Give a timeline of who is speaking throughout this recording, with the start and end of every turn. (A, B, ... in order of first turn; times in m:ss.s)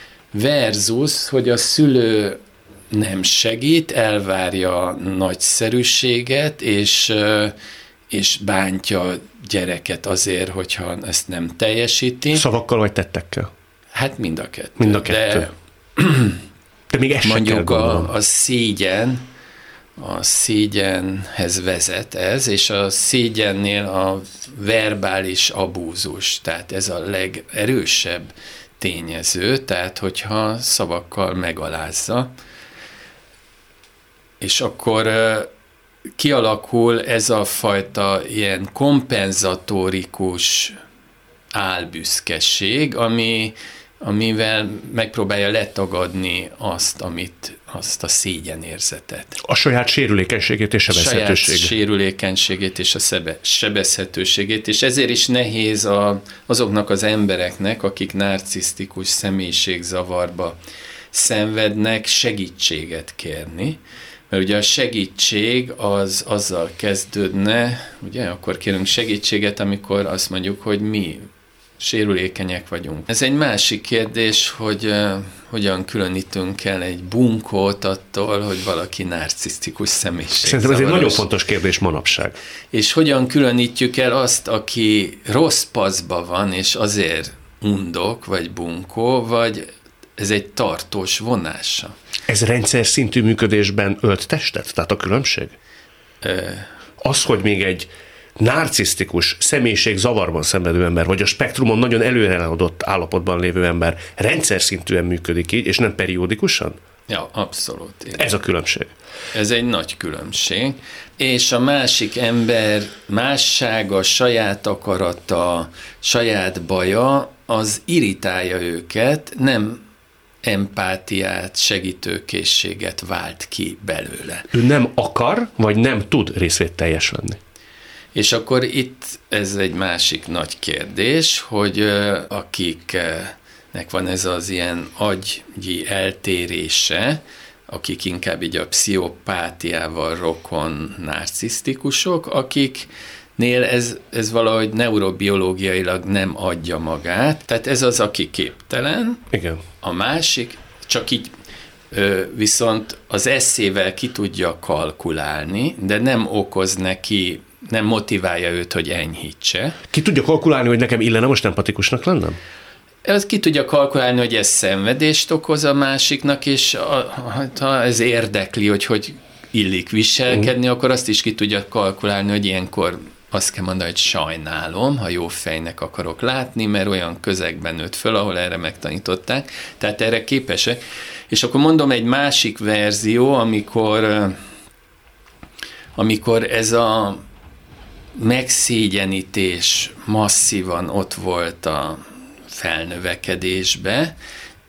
0:00.3-0:02.4 A
0:02.9-0:07.6 A
0:08.1-0:12.4 A
0:12.3-0:13.5 B
0:13.9-0:16.4 A
0:14.8-0:15.5 B
0:16.9-0:18.1 B
0:17.2-0:19.3 A
0:20.0-0:32.3 A
0:34.4-0:35.5 A
0:36.2-0:40.8 A
0:41.6-0:49.4 A
0:49.4-0:51.7 B
0:50.9-1:00.6 A
1:01.1-1:11.3 A
1:11.8-1:21.2 A
1:20.4-1:22.4 B
1:22.7-1:32.0 A
1:32.3-1:35.6 B
1:36.2-1:36.7 A
1:37.0-1:46.8 B
1:47.1-1:48.3 A
1:48.1-1:48.9 B
1:49.3-1:59.8 A
2:00.4-2:04.5 A
2:04.5-2:07.4 B
2:08.2-2:29.2 A
2:29.3-2:29.6 B
2:29.8-2:31.3 A
2:31.9-2:39.8 A
2:39.9-2:42.4 B
2:43.0-3:04.4 A
3:06.0-3:07.2 A
3:08.2-3:14.1 A